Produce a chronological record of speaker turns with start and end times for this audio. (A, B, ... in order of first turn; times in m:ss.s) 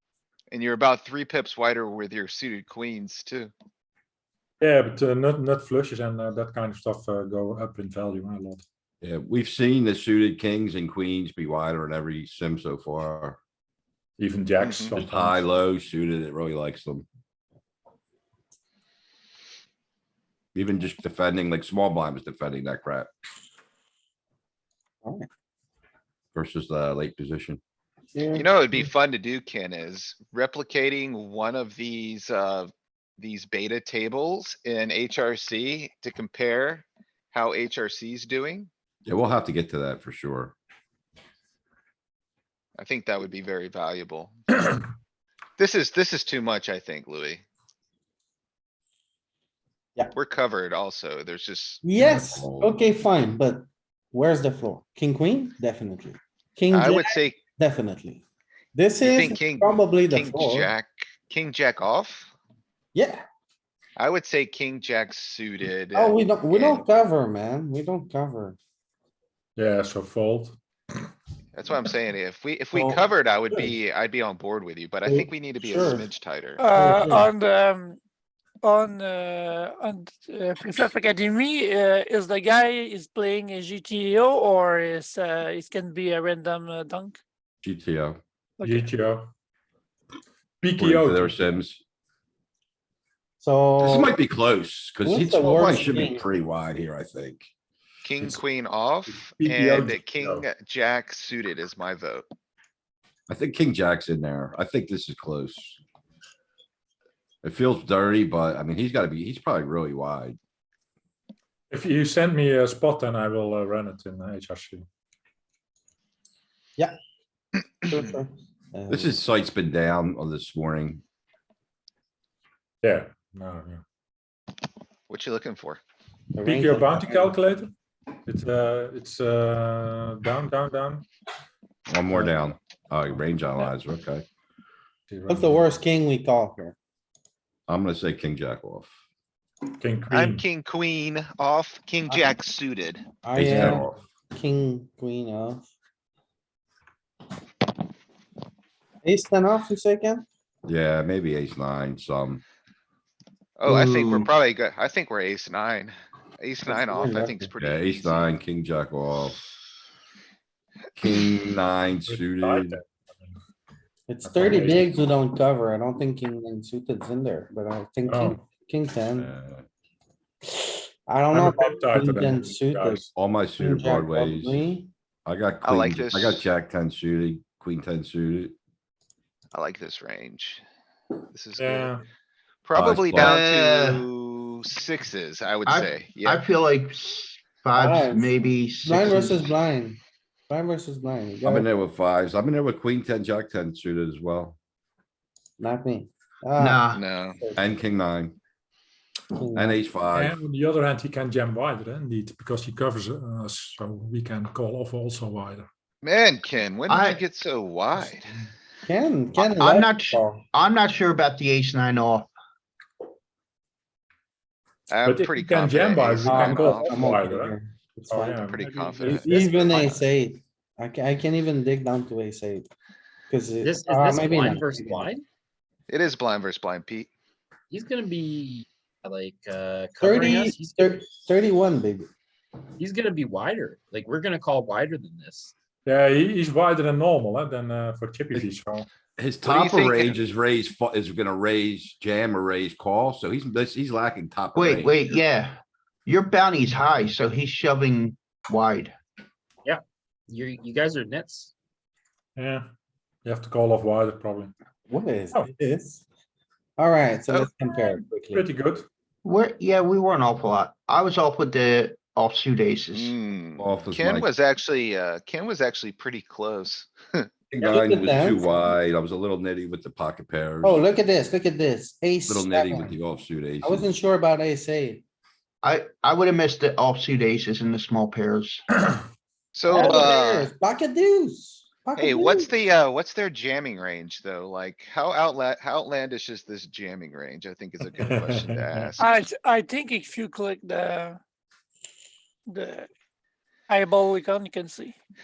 0:00.5-0:03.5 A
0:04.6-0:08.6 B
0:09.0-0:13.4 C
0:14.2-0:15.5 B
0:14.6-0:15.0 A
0:15.0-0:17.0 C
0:20.5-0:23.1 C
0:26.3-0:27.6 C
0:28.1-0:28.9 D
0:28.3-0:38.7 A
0:39.0-0:40.5 C
0:42.8-0:44.4 A
0:45.6-0:47.4 A
0:50.1-0:51.8 A
0:51.8-0:58.2 D
0:52.0-0:52.7 C
0:56.7-0:57.4 A
0:58.7-1:00.7 D
0:59.0-1:02.3 A
1:02.9-1:03.2 D
1:04.0-1:06.9 A
1:05.9-1:08.6 D
1:09.6-1:10.6 B
1:11.5-1:16.6 A
1:12.7-1:13.7 D
1:15.0-1:16.0 D
1:16.6-1:18.0 E
1:16.8-1:17.3 D
1:18.6-1:27.2 E
1:27.6-1:28.2 C
1:28.6-1:28.9 E
1:28.6-1:29.3 B
1:30.6-1:31.6 B
1:30.8-1:31.8 C
1:33.4-1:34.2 D
1:33.8-1:37.5 C
1:35.0-1:36.3 D
1:38.0-1:42.2 A
1:39.1-1:40.5 B
1:43.3-1:45.8 C
1:47.4-1:50.4 C
1:51.7-1:54.9 B
1:57.8-1:59.2 D
1:58.9-2:01.0 C
2:02.8-2:03.8 B
2:05.1-2:05.8 A
2:06.4-2:07.4 D
2:06.4-2:07.7 B
2:08.2-2:11.0 B
2:11.9-2:14.2 C
2:15.1-2:15.7 B
2:15.3-2:16.7 D
2:17.7-2:18.9 C
2:19.7-2:20.4 B
2:20.1-2:23.0 A
2:22.1-2:22.4 D
2:23.2-2:25.7 D
2:23.3-2:24.0 C
2:29.0-2:30.2 D
2:30.6-2:32.4 C
2:33.6-2:38.3 A
2:33.6-2:34.3 F
2:36.6-2:37.5 D
2:37.6-2:39.4 C
2:41.0-2:42.8 C
2:42.0-2:43.3 B
2:44.1-2:49.3 D
2:44.2-2:44.9 B
2:48.1-2:48.4 B
2:49.1-2:49.6 C
2:50.4-2:54.9 D
2:51.3-2:53.1 B
2:53.2-2:58.5 C
2:55.6-2:56.5 A
2:59.5-3:00.6 A
3:01.3-3:01.9 A
3:01.6-3:02.0 B
3:02.6-3:06.4 A
3:02.7-3:03.4 C
3:03.1-3:04.0 F
3:05.6-3:09.5 F
3:07.7-3:11.6 D
3:11.4-3:14.6 C
3:15.6-3:17.7 D
3:16.6-3:17.0 F
3:16.9-3:17.4 A
3:17.6-3:18.4 C
3:19.3-3:19.8 D
3:19.5-3:20.4 C
3:20.1-3:25.7 B
3:26.0-3:28.4 A
3:26.9-3:27.2 F
3:28.8-3:30.4 D
3:29.3-3:32.3 F
3:34.9-3:37.1 A
3:35.0-3:40.0 B
3:36.2-3:38.4 D
3:38.4-3:39.3 A
3:39.0-3:42.7 D
3:43.3-3:45.1 D
3:43.6-3:45.2 G
3:45.9-3:47.1 A
3:47.7-3:51.2 G
3:50.0-3:52.1 D
3:52.8-3:55.5 G
3:55.8-3:58.9 B
3:59.2-4:04.9 C
3:59.4-4:00.2 A
4:04.5-4:08.9 F
4:09.6-4:11.5 G
4:12.4-4:12.7 B
4:13.2-4:14.5 B
4:14.9-4:16.0 D
4:16.8-4:18.5 D
4:18.3-4:18.9 B
4:19.2-4:23.1 F
4:22.9-4:27.3 A
4:23.6-4:24.3 C
4:27.5-4:30.8 C
4:27.6-4:28.6 D
4:30.6-4:32.9 D
4:32.3-4:33.9 C
4:33.6-4:35.0 D
4:35.6-4:38.6 F
4:39.5-4:40.5 A
4:39.6-4:42.5 D
4:42.0-4:49.1 A
4:48.1-4:48.9 B
4:49.0-4:51.2 E
4:52.5-4:52.9 E
4:53.7-4:55.0 E